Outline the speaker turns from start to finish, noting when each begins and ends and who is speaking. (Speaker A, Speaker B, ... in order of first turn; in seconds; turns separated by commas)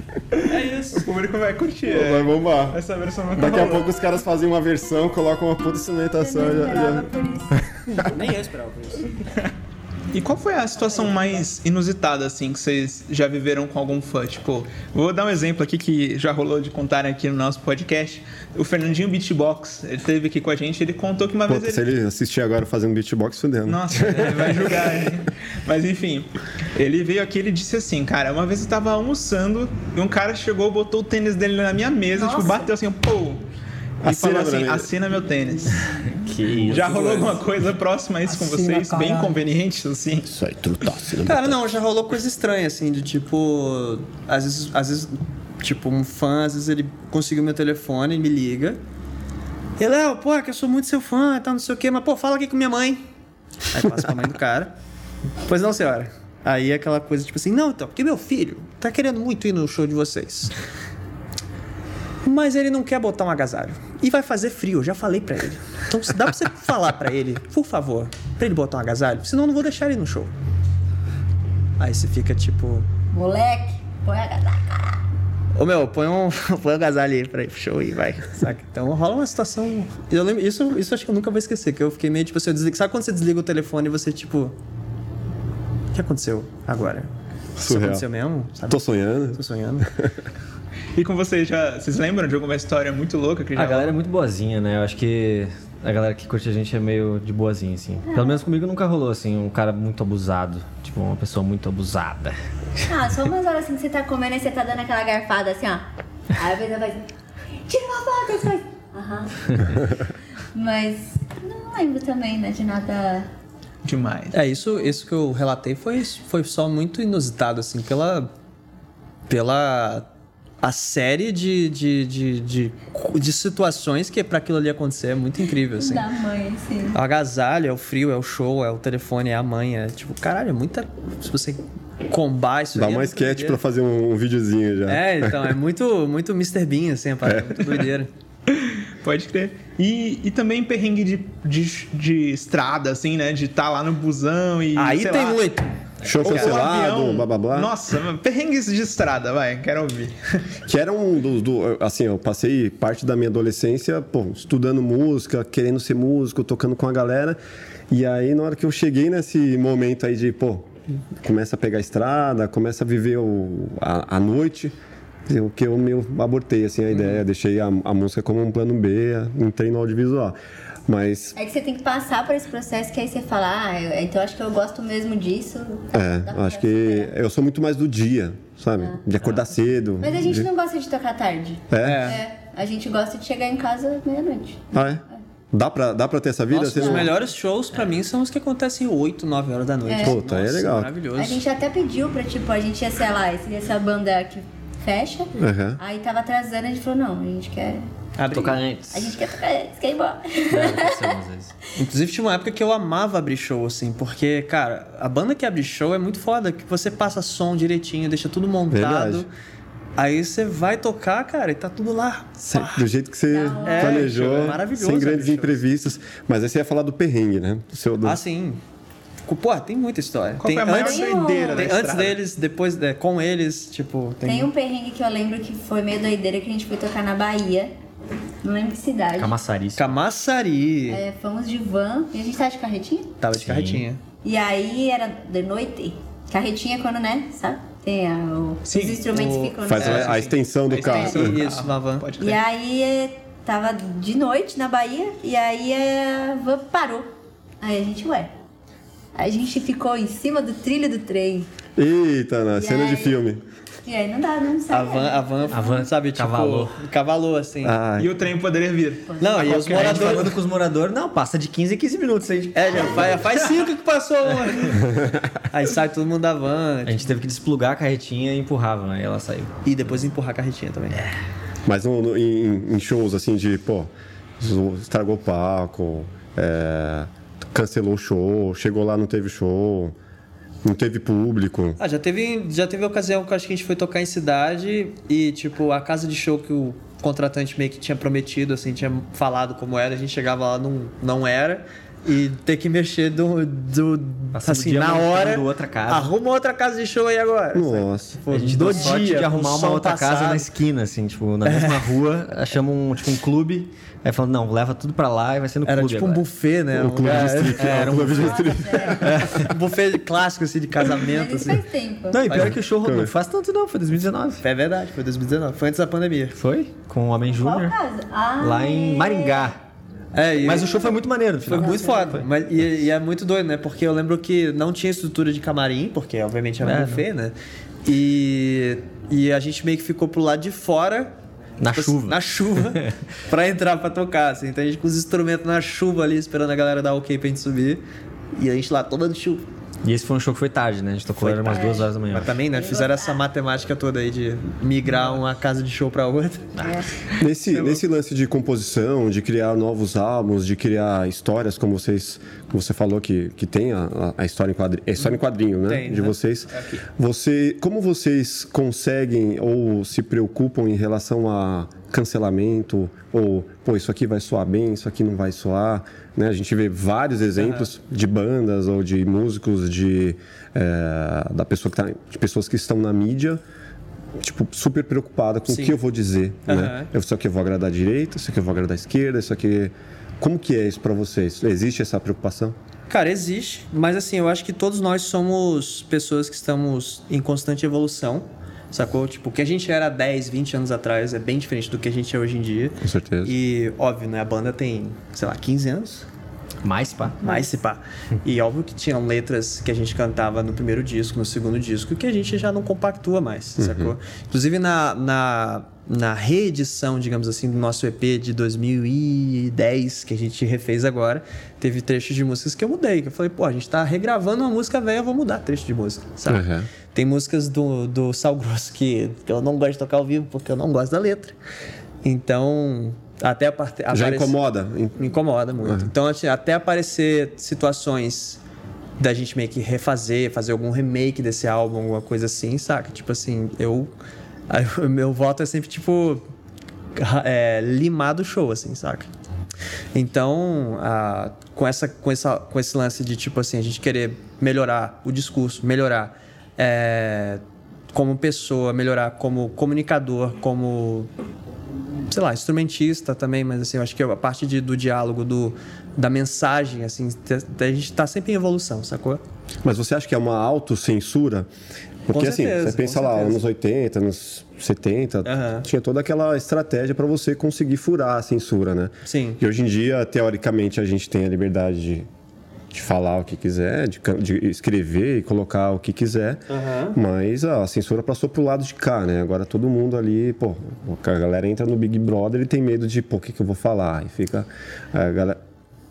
Speaker A: 0.4-1.1, Speaker B: 0.5-3.9, Speaker C: 1.9-2.8, Speaker C: 3.4-7.1, Speaker D: 6.2-8.0, Speaker C: 7.8-8.1, Speaker A: 8.0-9.3, Speaker B: 10.1-21.9, Speaker C: 21.5-25.1, Speaker B: 23.7-33.4, Speaker D: 32.1-32.7, Speaker C: 34.0-34.9, Speaker B: 34.0-35.8, Speaker E: 36.0-37.0, Speaker C: 36.5-37.3, Speaker B: 36.7-40.3, Speaker D: 38.8-39.3, Speaker C: 40.3-41.7, Speaker A: 41.2-48.8, Speaker A: 49.8-53.0, Speaker A: 53.7-54.7, Speaker A: 55.5-60.5, Speaker A: 62.2-70.3, Speaker A: 71.8-72.9, Speaker D: 73.1-75.0, Speaker A: 75.6-84.5, Speaker A: 86.0-87.1, Speaker C: 87.6-88.1, Speaker A: 87.7-89.9, Speaker C: 88.7-90.2, Speaker B: 91.0-93.9, Speaker E: 93.6-102.4, Speaker D: 98.1-98.4, Speaker D: 102.9-107.0, Speaker D: 107.7-109.8, Speaker D: 110.5-113.3, Speaker B: 113.8-114.4, Speaker A: 114.3-118.3, Speaker A: 119.3-120.1, Speaker A: 120.6-126.1, Speaker D: 125.8-127.0, Speaker A: 126.9-133.6, Speaker C: 132.7-135.6, Speaker A: 134.9-138.1, Speaker B: 138.5-145.4, Speaker A: 144.8-145.7, Speaker C: 146.0-147.7, Speaker B: 146.2-150.4, Speaker A: 146.2-146.6, Speaker C: 150.7-157.4, Speaker C: 157.9-164.8, Speaker C: 165.3-170.3, Speaker C: 170.9-171.4, Speaker D: 171.4-177.1, Speaker C: 175.9-180.5, Speaker D: 180.0-184.8, Speaker C: 181.7-182.2, Speaker A: 181.8-182.2, Speaker C: 184.7-187.1, Speaker A: 186.5-191.4, Speaker D: 186.7-187.1, Speaker D: 189.8-190.2, Speaker C: 190.0-190.9, Speaker D: 191.2-197.8, Speaker C: 195.4-195.8, Speaker A: 198.2-198.6, Speaker E: 198.3-199.2, Speaker D: 198.9-201.2, Speaker E: 200.5-201.5, Speaker A: 201.8-209.3, Speaker C: 208.7-209.3, Speaker A: 210.0-212.8, Speaker C: 212.4-218.2, Speaker D: 213.3-214.1, Speaker A: 213.6-215.6, Speaker A: 218.0-218.6, Speaker A: 219.3-224.5, Speaker B: 220.4-222.2, Speaker D: 220.7-221.7, Speaker D: 224.2-227.7, Speaker D: 228.4-229.3, Speaker E: 229.2-230.0, Speaker A: 229.8-231.0, Speaker D: 230.9-233.2, Speaker A: 233.2-234.0, Speaker E: 233.3-233.8, Speaker D: 234.2-240.1, Speaker B: 238.7-239.1, Speaker A: 239.1-240.1, Speaker C: 239.6-241.4, Speaker B: 239.7-242.4, Speaker D: 240.8-241.2, Speaker A: 240.8-242.1, Speaker D: 242.2-247.1, Speaker D: 247.6-248.3, Speaker D: 249.2-251.5, Speaker C: 251.8-253.4, Speaker D: 252.5-253.2, Speaker D: 253.9-255.7, Speaker A: 254.7-257.8, Speaker E: 255.5-256.8, Speaker C: 257.6-258.2, Speaker B: 258.0-260.3, Speaker D: 259.1-259.5, Speaker A: 259.2-260.4, Speaker E: 259.4-263.4, Speaker A: 262.6-264.9, Speaker C: 264.8-265.3, Speaker A: 265.5-267.1, Speaker E: 266.9-269.6, Speaker A: 269.6-271.1, Speaker C: 271.7-280.0, Speaker C: 280.6-281.8, Speaker A: 281.8-300.5, Speaker E: 294.3-296.1, Speaker C: 297.5-298.2, Speaker E: 298.3-306.2, Speaker A: 301.4-301.8, Speaker A: 305.7-308.3, Speaker C: 306.7-309.1, Speaker E: 307.0-309.6, Speaker D: 308.3-309.0, Speaker A: 309.3-311.6, Speaker D: 311.0-312.5, Speaker E: 312.1-314.4, Speaker C: 312.3-313.1, Speaker A: 314.4-316.4, Speaker E: 316.4-317.8, Speaker D: 317.3-319.5, Speaker E: 318.4-319.6, Speaker A: 320.1-331.1, Speaker E: 320.4-322.3, Speaker D: 321.6-322.2, Speaker E: 326.6-327.1, Speaker E: 331.6-333.0, Speaker A: 331.7-337.8, Speaker A: 338.4-339.4, Speaker E: 339.8-342.4, Speaker A: 341.2-347.8, Speaker D: 341.5-341.9, Speaker D: 342.5-343.2, Speaker D: 346.6-346.9, Speaker C: 347.2-373.4, Speaker A: 355.6-356.1, Speaker B: 356.5-356.8, Speaker A: 367.4-367.7, Speaker C: 374.2-382.6, Speaker A: 375.5-375.8, Speaker A: 376.5-376.9, Speaker A: 382.9-396.1, Speaker C: 392.8-393.4, Speaker E: 396.6-397.2, Speaker A: 397.2-421.4, Speaker D: 397.2-397.5, Speaker C: 403.6-403.9, Speaker C: 416.3-416.7, Speaker A: 422.0-424.3, Speaker C: 423.9-425.1, Speaker A: 425.0-428.4, Speaker C: 425.6-425.9, Speaker A: 429.0-433.9, Speaker A: 434.5-436.2, Speaker A: 437.0-439.1, Speaker A: 439.9-451.1, Speaker A: 452.1-459.2, Speaker C: 459.6-461.5, Speaker C: 462.1-472.1, Speaker A: 462.1-463.4, Speaker A: 465.2-465.7, Speaker A: 469.1-469.4, Speaker C: 472.7-485.4, Speaker A: 476.5-477.0